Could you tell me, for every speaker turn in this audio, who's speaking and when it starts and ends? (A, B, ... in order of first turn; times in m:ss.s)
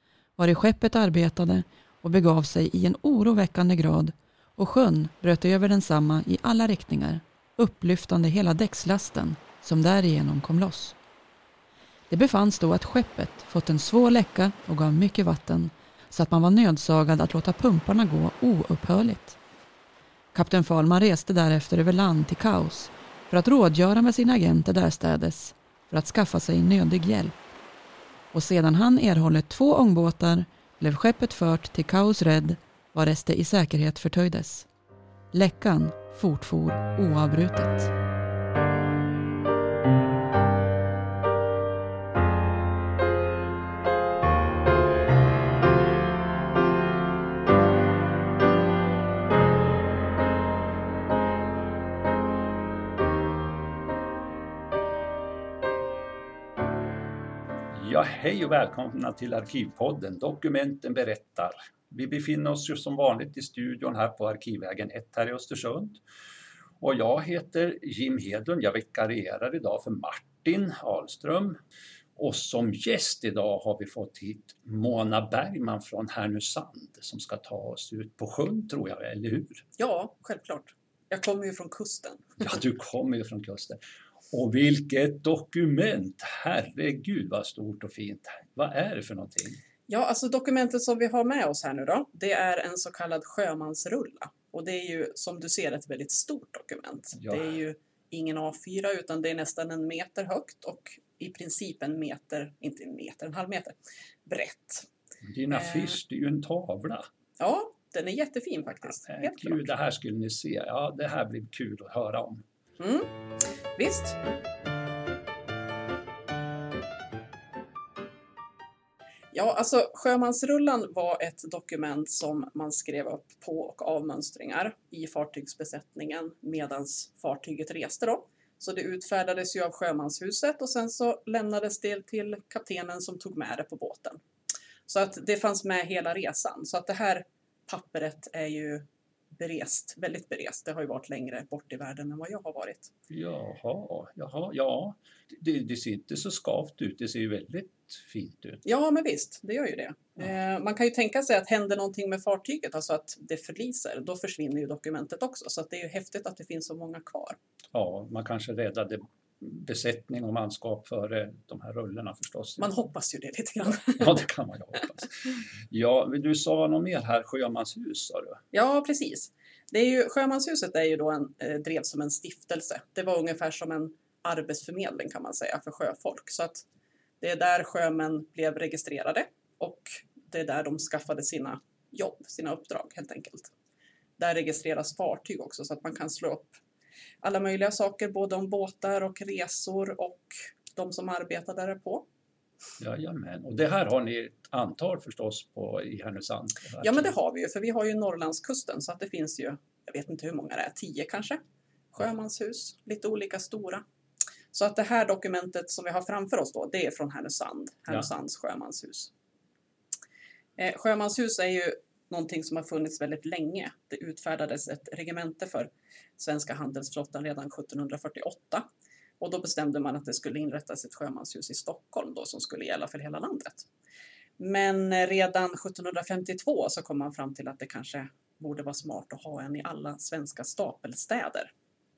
0:00.4-0:11.0 A
0:12.1-0:19.4 A
0:20.3-0:27.4 A
0:28.3-0:34.7 A
0:35.3-0:37.9 A
0:57.7-1:06.0 B
1:06.8-1:11.6 B
1:12.2-1:19.6 B
1:19.8-1:22.5 C
1:22.4-1:29.6 B
1:29.9-1:43.7 C
1:37.2-1:37.5 B
1:44.2-1:44.9 C
1:45.2-1:47.1 B
1:45.5-1:46.0 C
1:47.4-1:49.7 C
1:49.0-1:52.4 B
1:52.8-1:53.1 C
1:53.7-1:54.2 C
1:59.3-2:14.2 C
2:14.9-2:22.9 C
2:23.1-2:28.6 B
2:28.6-2:37.4 C
2:37.7-2:42.7 B
2:42.6-2:44.2 C
2:44.0-2:48.4 B
2:48.5-2:56.6 C
2:57.2-3:03.5 C
3:04.2-3:06.6 C
3:07.2-3:12.1 C
3:12.8-3:17.1 B
3:16.8-3:21.4 C
3:21.9-3:23.8 C
3:24.5-3:29.1 C
3:30.6-3:38.6 C
3:39.2-3:43.7 C
3:44.4-3:51.5 C